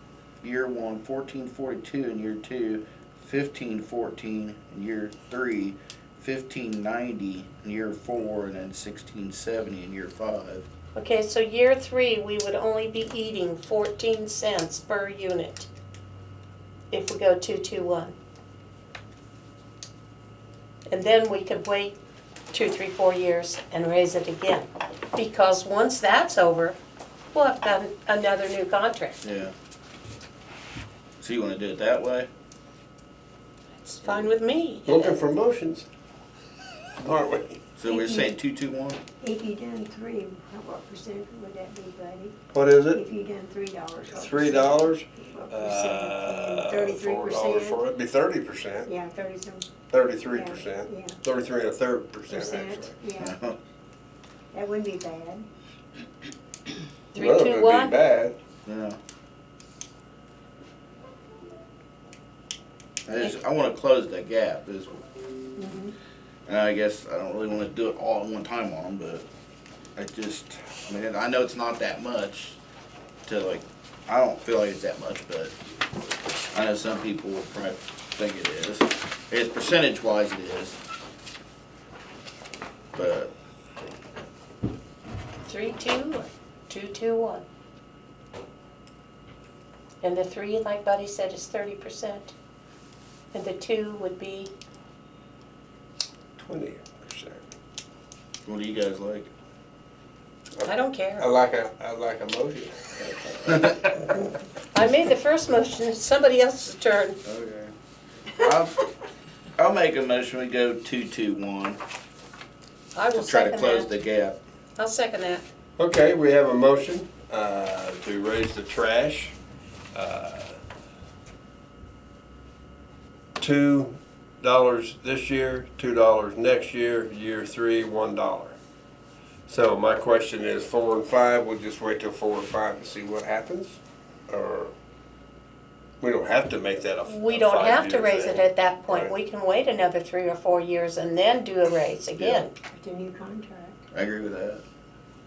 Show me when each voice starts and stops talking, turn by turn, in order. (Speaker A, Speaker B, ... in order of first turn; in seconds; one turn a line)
Speaker A: 0.4-10.7
Speaker B: 10.9-15.7
Speaker B: 16.9-18.2
Speaker B: 20.9-22.0
Speaker B: 22.5-26.8
Speaker B: 27.3-29.2
Speaker A: 29.2-29.5
Speaker A: 31.2-32.3
Speaker B: 33.8-35.2
Speaker C: 34.9-35.9
Speaker C: 37.0-37.6
Speaker A: 37.8-39.0
Speaker D: 37.9-38.4
Speaker D: 39.2-42.4
Speaker C: 42.5-43.0
Speaker D: 42.9-47.8
Speaker C: 44.1-48.9
Speaker D: 48.9-49.7
Speaker C: 49.9-53.0
Speaker D: 50.3-51.2
Speaker D: 52.3-53.4
Speaker A: 53.2-53.6
Speaker D: 54.5-55.5
Speaker B: 57.1-57.9
Speaker C: 57.1-58.4
Speaker A: 58.6-59.0
Speaker A: 63.1-65.1
Speaker D: 65.6-65.9
Speaker A: 66.5-69.2
Speaker A: 70.0-72.6
Speaker A: 73.3-75.5
Speaker A: 76.5-80.8
Speaker A: 82.9-83.3
Speaker B: 85.5-87.5
Speaker B: 90.0-92.3
Speaker B: 93.3-94.5
Speaker C: 96.4-97.4
Speaker A: 98.5-99.3
Speaker C: 100.6-104.2
Speaker B: 100.6-101.3
Speaker B: 104.7-107.2
Speaker A: 107.2-107.7
Speaker A: 108.3-108.9
Speaker A: 109.6-111.8
Speaker B: 113.0-113.9
Speaker A: 113.1-114.4
Speaker B: 114.8-115.4
Speaker C: 115.8-119.3
Speaker C: 119.9-120.6
Speaker C: 123.4-128.6
Speaker C: 129.5-134.7
Speaker C: 136.0-139.1
Speaker B: 137.1-142.6
Speaker A: 142.2-142.4
Speaker D: 142.7-143.8
Speaker A: 143.9-144.6